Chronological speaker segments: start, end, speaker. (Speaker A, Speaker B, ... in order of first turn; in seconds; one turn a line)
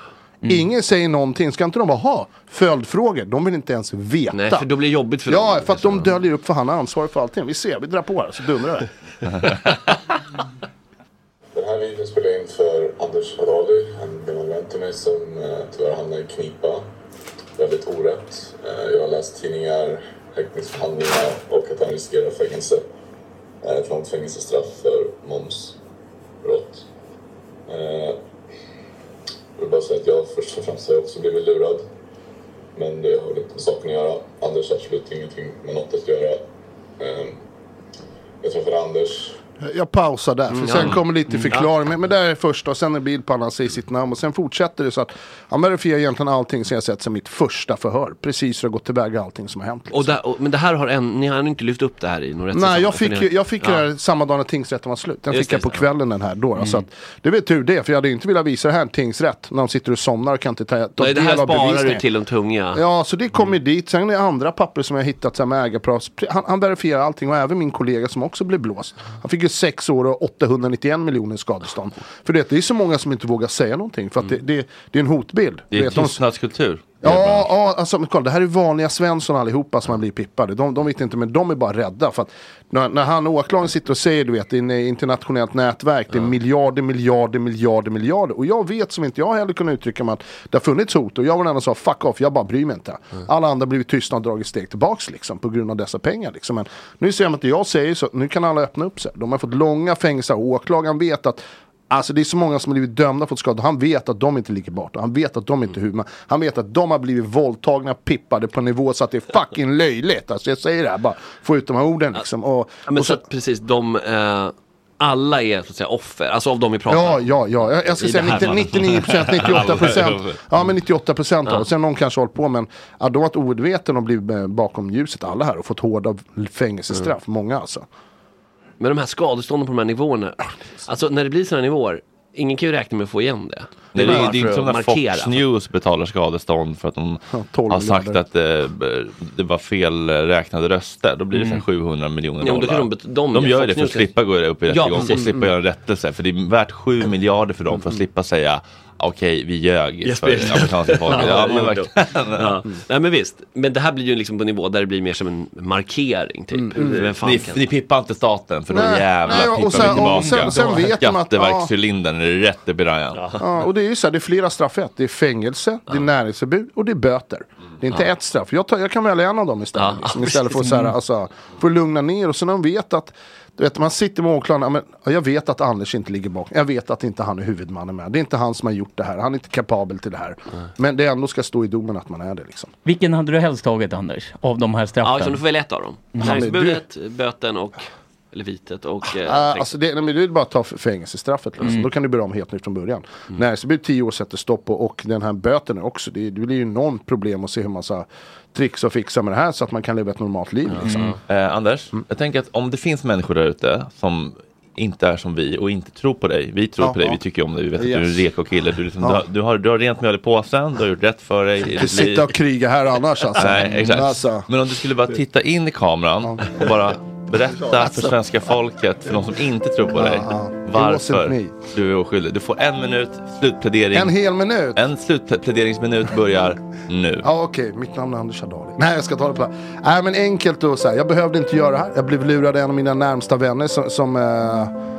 Speaker A: 0.4-4.7
Speaker B: 4.3-6.1
Speaker A: 5.3-8.9
Speaker C: 11.5-16.9
Speaker C: 17.6-22.8
Speaker C: 23.6-25.8
Speaker C: 26.4-26.8
Speaker C: 27.7-28.2
Speaker C: 29.6-31.9
Speaker C: 32.7-36.4
Speaker C: 37.0-37.4
Speaker C: 38.4-39.4
Speaker A: 39.6-50.1
Speaker B: 40.5-41.7
Speaker B: 49.9-53.8
Speaker A: 52.5-62.0
Speaker B: 55.3-55.9
Speaker B: 61.0-62.8
Speaker A: 62.7-76.2
Speaker D: 75.7-77.5
Speaker A: 77.0-113.2
Speaker B: 112.9-117.2
Speaker A: 116.9-127.8
Speaker B: 118.0-118.7
Speaker D: 118.5-120.4
Speaker B: 128.8-135.4
Speaker D: 133.9-152.6
Speaker A: 134.1-134.3
Speaker A: 137.3-138.2
Speaker E: 141.3-141.6
Speaker B: 142.4-144.1
Speaker B: 144.7-145.4
Speaker B: 150.0-157.6
Speaker A: 156.5-157.1
Speaker D: 156.9-163.3
Speaker A: 158.7-161.7
Speaker B: 163.2-163.4
Speaker A: 163.4-182.7
Speaker B: 169.8-170.6
Speaker E: 170.7-170.9
Speaker E: 182.8-185.4
Speaker B: 185.0-189.7
Speaker E: 186.1-186.4
Speaker A: 186.2-186.8
Speaker A: 189.1-201.2
Speaker E: 191.6-191.9
Speaker B: 200.7-201.2
Speaker E: 200.8-201.1
Speaker D: 201.3-212.3
Speaker A: 206.8-207.2
Speaker A: 207.8-208.2
Speaker A: 209.0-209.2
Speaker A: 211.7-214.5
Speaker D: 213.4-224.2
Speaker A: 216.2-216.7
Speaker A: 219.9-221.5
Speaker A: 223.9-224.8
Speaker D: 224.8-227.2
Speaker A: 227.2-234.7